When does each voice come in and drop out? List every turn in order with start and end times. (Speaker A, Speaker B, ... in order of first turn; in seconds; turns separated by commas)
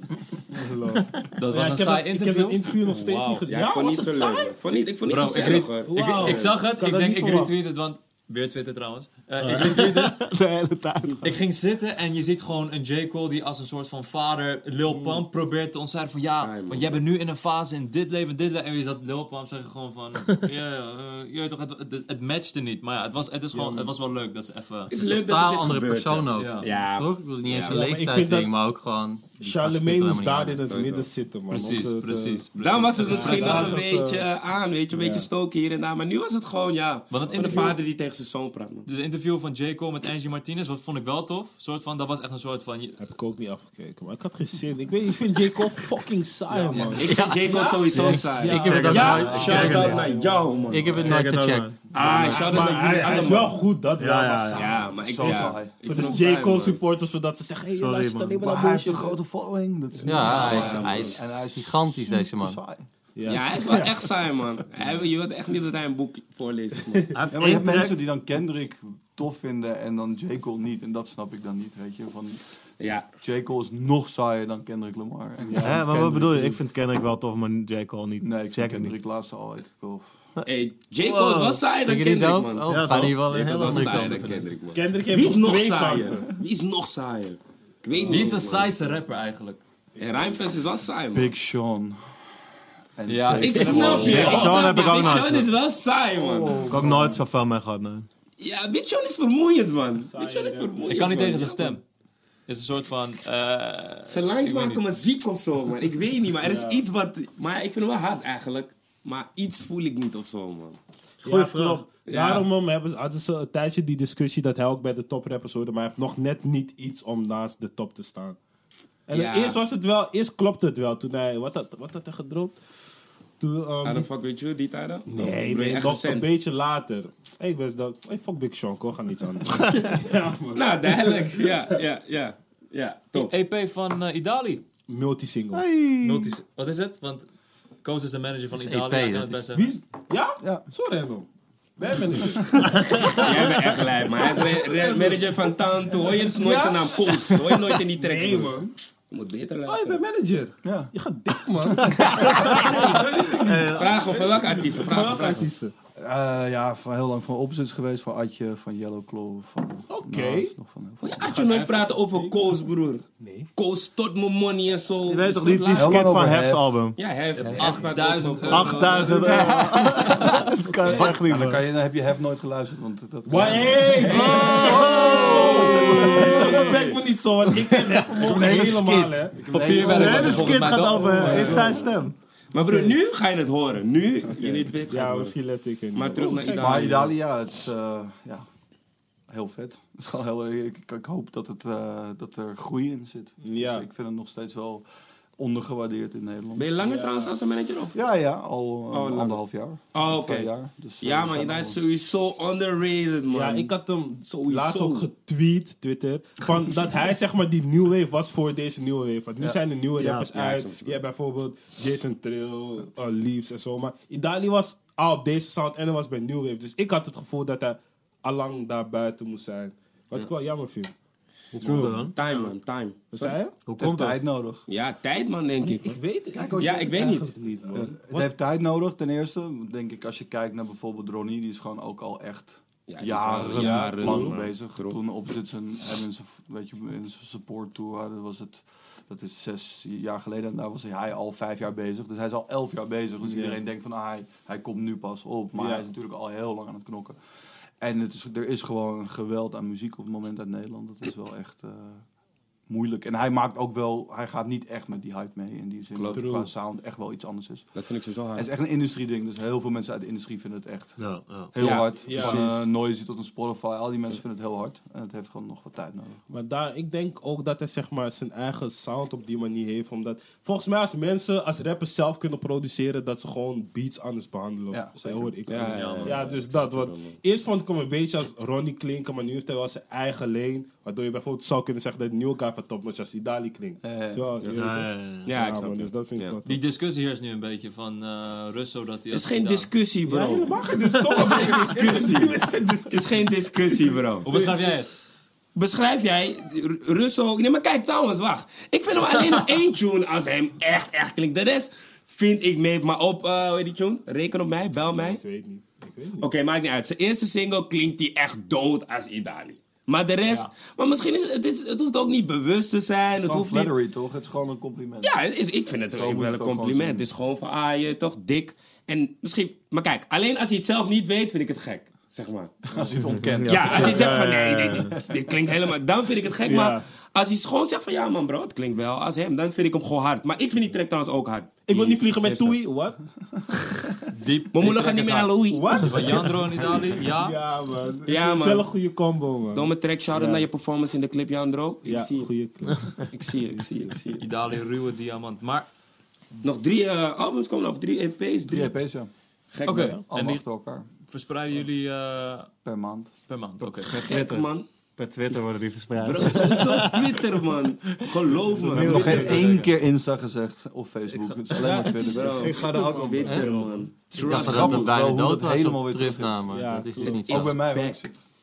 Speaker A: 0.5-4.6, Speaker B: 0.9-1.2, Speaker C: 1.4-3.4, Speaker D: 3.5-6.5, Speaker C: 5.1-10.2, Speaker A: 5.5-7.5, Speaker B: 9.4-11.4, Speaker C: 11.2-24.9, Speaker A: 14.9-15.2, Speaker D: 16.4-17.0, Speaker A: 23.5-23.8, Speaker D: 24.9-27.8, Speaker E: 25.0-30.8, Speaker C: 26.4-26.7, Speaker A: 27.7-28.5, Speaker A: 29.4-32.5, Speaker D: 30.6-31.1, Speaker C: 31.5-33.8, Speaker D: 32.6-38.9, Speaker A: 33.0-34.3, Speaker A: 34.9-35.3, Speaker C: 37.1-37.8, Speaker A: 37.3-37.7, Speaker C: 38.9-43.0, Speaker A: 43.0-50.7, Speaker C: 46.7-47.0, Speaker D: 46.8-51.0, Speaker E: 47.0-50.1, Speaker B: 48.5-50.0, Speaker C: 49.2-49.8, Speaker F: 49.4-50.2, Speaker E: 50.7-52.7, Speaker B: 51.0-52.5, Speaker D: 51.9-53.6, Speaker A: 52.0-59.2, Speaker B: 54.0-54.8, Speaker D: 54.5-56.8, Speaker F: 55.0-56.2, Speaker B: 57.7-58.4, Speaker F: 58.4-62.9, Speaker E: 60.0-62.6, Speaker C: 60.2-60.8, Speaker D: 60.2-61.2, Speaker A: 63.1-64.0, Speaker D: 63.2-67.2, Speaker B: 67.1-68.0, Speaker F: 67.3-72.6, Speaker D: 72.8-73.1, Speaker F: 73.1-76.6, Speaker A: 75.4-75.8, Speaker B: 75.6-79.0, Speaker F: 78.2-80.1, Speaker D: 80.4-88.8, Speaker B: 81.0-81.6, Speaker E: 81.8-84.5, Speaker B: 82.7-84.3, Speaker A: 84.7-86.3, Speaker C: 88.1-89.6, Speaker D: 90.0-91.3, Speaker A: 90.0-90.2, Speaker F: 91.1-92.0, Speaker F: 93.0-94.6, Speaker C: 93.1-95.0, Speaker D: 93.3-96.7, Speaker A: 93.3-94.5, Speaker B: 94.0-95.5, Speaker A: 96.4-97.2, Speaker B: 96.7-98.1, Speaker D: 98.4-101.8, Speaker A: 100.0-100.8, Speaker C: 100.9-101.8, Speaker C: 102.5-104.9, Speaker D: 104.0-110.8, Speaker A: 106.4-106.8, Speaker B: 111.2-111.8, Speaker A: 111.2-118.4, Speaker D: 112.0-112.5, Speaker A: 119.1-122.6, Speaker D: 119.1-119.6, Speaker A: 123.4-124.1, Speaker D: 123.8-126.3, Speaker A: 125.1-131.5, Speaker D: 130.5-133.3, Speaker C: 133.1-134.6, Speaker A: 134.9-135.7, Speaker B: 135.5-136.4, Speaker C: 136.0-137.2, Speaker C: 137.8-139.8, Speaker E: 138.5-139.5, Speaker A: 139.5-143.3, Speaker B: 142.6-143.2, Speaker D: 143.2-148.6, Speaker A: 144.1-145.5, Speaker A: 146.0-148.7, Speaker D: 149.1-150.0, Speaker A: 149.7-155.7, Speaker F: 150.6-150.9, Speaker B: 152.2-154.0, Speaker D: 153.7-155.5, Speaker F: 155.9-161.4, Speaker A: 159.9-160.5, Speaker D: 161.0-166.1, Speaker C: 161.3-161.8, Speaker A: 162.1-162.4, Speaker A: 163.2-163.5, Speaker B: 165.1-167.0, Speaker F: 165.7-166.6, Speaker D: 167.0-169.2, Speaker C: 167.4-170.4, Speaker B: 168.5-171.7, Speaker F: 169.1-176.8, Speaker A: 169.2-169.7, Speaker A: 173.2-181.9, Speaker D: 173.9-176.3, Speaker B: 174.0-176.9, Speaker F: 178.2-181.9, Speaker C: 179.5-181.6, Speaker D: 179.8-180.4, Speaker B: 179.8-182.1, Speaker D: 181.3-181.5, Speaker D: 182.5-185.3, Speaker A: 182.7-182.9, Speaker A: 184.3-187.1, Speaker D: 185.9-187.1, Speaker F: 186.6-188.4, Speaker F: 189.3-194.8, Speaker A: 193.4-193.9, Speaker F: 195.4-196.7, Speaker D: 196.6-198.0, Speaker A: 196.8-197.3, Speaker F: 197.9-201.8, Speaker D: 198.9-205.1, Speaker A: 203.3-220.9, Speaker B: 210.0-210.3, Speaker D: 210.3-211.0, Speaker B: 221.5-222.1, Speaker D: 221.6-223.4, Speaker A: 223.1-223.6, Speaker B: 223.7-224.2, Speaker F: 223.8-224.6, Speaker D: 224.7-226.0, Speaker A: 225.6-228.3, Speaker F: 226.3-227.2, Speaker D: 226.6-227.9, Speaker F: 227.7-247.2, Speaker D: 232.9-235.0, Speaker B: 233.5-233.8, Speaker A: 233.5-234.4, Speaker A: 243.2-243.6, Speaker A: 245.6-245.8, Speaker F: 247.8-252.0, Speaker F: 252.7-257.7, Speaker D: 255.9-256.3, Speaker A: 256.1-256.5, Speaker D: 257.7-258.5, Speaker F: 258.3-266.2, Speaker B: 261.0-261.5, Speaker D: 261.6-262.6, Speaker A: 262.0-262.5, Speaker A: 266.3-286.6, Speaker F: 274.7-275.3, Speaker D: 275.5-277.2, Speaker F: 283.8-284.3, Speaker B: 284.5-285.3, Speaker D: 285.2-286.4, Speaker C: 286.4-289.7, Speaker D: 289.1-290.5, Speaker A: 290.1-293.1, Speaker D: 291.1-292.3, Speaker D: 292.9-294.3, Speaker C: 294.2-294.9, Speaker D: 295.5-305.2, Speaker A: 304.9-306.3, Speaker D: 306.2-313.7, Speaker F: 313.2-315.1, Speaker D: 315.0-322.6, Speaker F: 315.9-317.1, Speaker F: 322.7-324.3, Speaker B: 322.9-324.9, Speaker D: 323.5-332.6, Speaker A: 326.4-326.8, Speaker A: 331.7-333.0, Speaker C: 334.1-337.4, Speaker D: 334.5-335.8, Speaker A: 335.4-336.4, Speaker A: 337.0-340.4, Speaker D: 338.1-338.7, Speaker D: 339.5-342.3, Speaker A: 341.8-343.1, Speaker D: 343.1-344.2, Speaker C: 344.2-345.6, Speaker D: 346.4-348.7, Speaker F: 348.5-349.1, Speaker D: 349.5-350.0, Speaker C: 349.6-350.4, Speaker F: 350.1-350.9, Speaker C: 351.1-352.5, Speaker F: 352.6-353.1, Speaker C: 353.3-353.9, Speaker B: 353.8-357.4, Speaker D: 353.8-354.6, Speaker D: 356.0-359.5, Speaker B: 358.5-359.6, Speaker F: 358.7-362.8, Speaker A: 358.8-359.4, Speaker C: 359.0-359.7, Speaker B: 361.1-363.9, Speaker A: 361.6-361.9, Speaker D: 362.0-364.9, Speaker F: 364.1-366.5, Speaker E: 364.1-367.7, Speaker A: 366.5-367.4, Speaker F: 367.0-368.2, Speaker D: 367.2-368.0